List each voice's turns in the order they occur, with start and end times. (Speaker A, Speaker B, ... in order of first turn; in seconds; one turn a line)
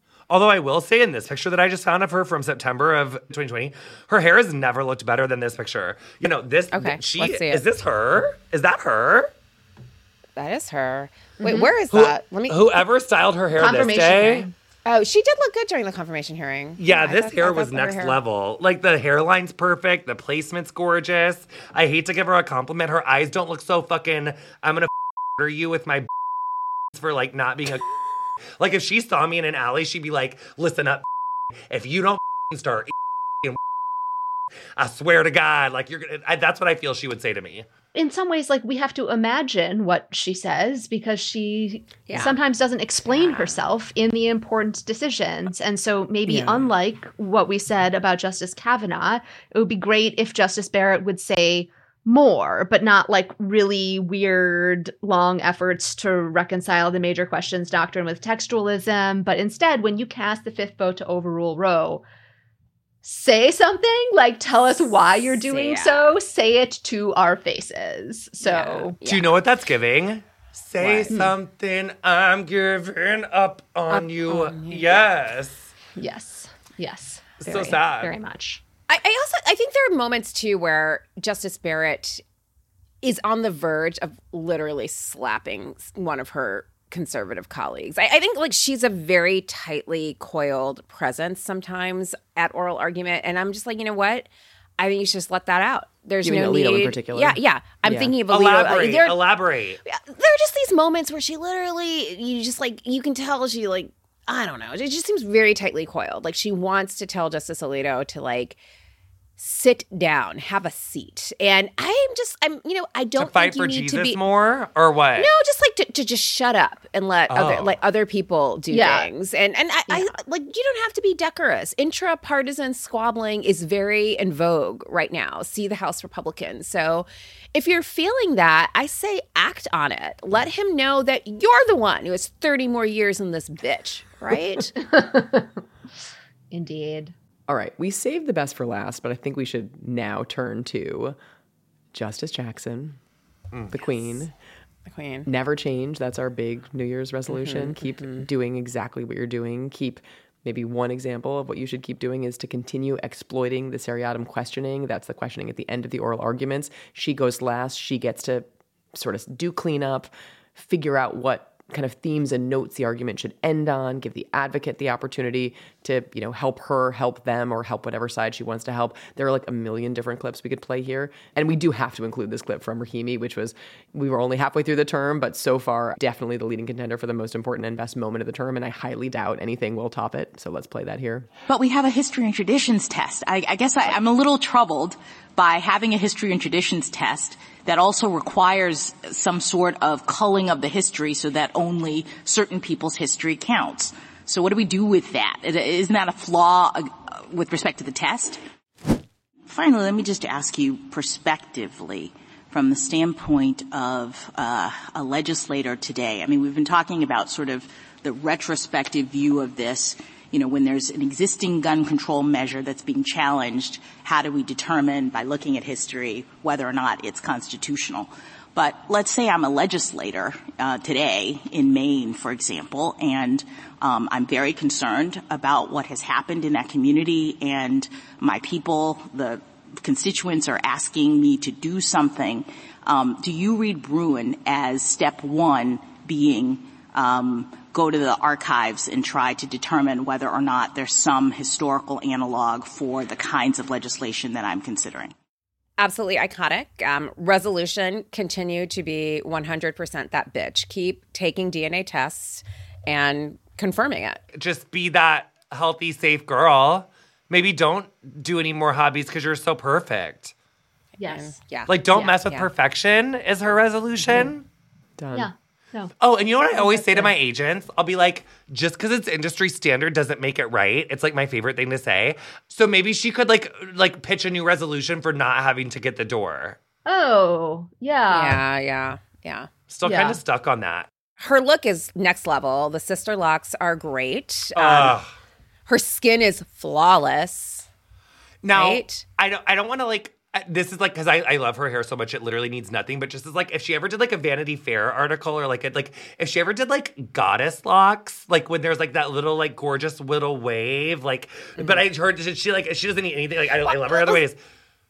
Speaker A: 0.3-9.3
Speaker B: 6.7-7.6
Speaker B: 10.3-12.8
Speaker C: 11.4-11.7
Speaker A: 11.9-14.5
Speaker C: 13.6-14.5
Speaker B: 14.8-18.2
Speaker A: 16.8-26.1
Speaker A: 26.9-27.8
Speaker A: 28.6-31.0
Speaker A: 31.7-33.6
Speaker A: 34.8-37.6
Speaker C: 37.9-62.0
Speaker B: 42.1-42.4
Speaker B: 43.1-43.5
Speaker B: 46.2-46.7
Speaker C: 63.0-69.0
Speaker B: 64.8-66.1
Speaker B: 68.4-69.2
Speaker A: 69.0-75.7
Speaker B: 70.8-71.2
Speaker B: 73.9-75.0
Speaker C: 75.9-78.6
Speaker A: 77.4-78.2
Speaker B: 78.9-82.2
Speaker B: 83.0-94.3
Speaker B: 94.8-99.2
Speaker D: 96.2-98.1
Speaker A: 98.3-99.8
Speaker B: 99.8-108.6
Speaker B: 109.4-114.2
Speaker A: 113.2-115.3
Speaker B: 115.2-134.7
Speaker A: 117.3-117.7
Speaker C: 118.7-119.1
Speaker C: 119.9-120.1
Speaker C: 134.8-135.6
Speaker C: 136.5-137.1
Speaker D: 137.5-141.2
Speaker D: 141.9-143.0
Speaker D: 143.7-144.3
Speaker B: 144.8-145.3
Speaker D: 145.2-181.3
Speaker B: 147.3-148.3
Speaker E: 181.5-198.4
Speaker E: 199.5-245.1
Speaker B: 245.8-254.2
Speaker A: 254.3-260.3
Speaker C: 261.0-261.3
Speaker B: 261.0-262.5
Speaker A: 261.7-264.4
Speaker D: 265.0-265.3
Speaker C: 265.1-265.9
Speaker A: 266.0-276.6
Speaker C: 266.5-267.1
Speaker C: 276.9-278.4
Speaker B: 278.1-279.5
Speaker A: 279.7-280.9
Speaker C: 279.8-280.2
Speaker B: 281.2-284.9
Speaker A: 284.6-285.1
Speaker B: 285.7-287.7
Speaker A: 288.4-304.4
Speaker B: 288.5-289.0
Speaker B: 303.6-304.2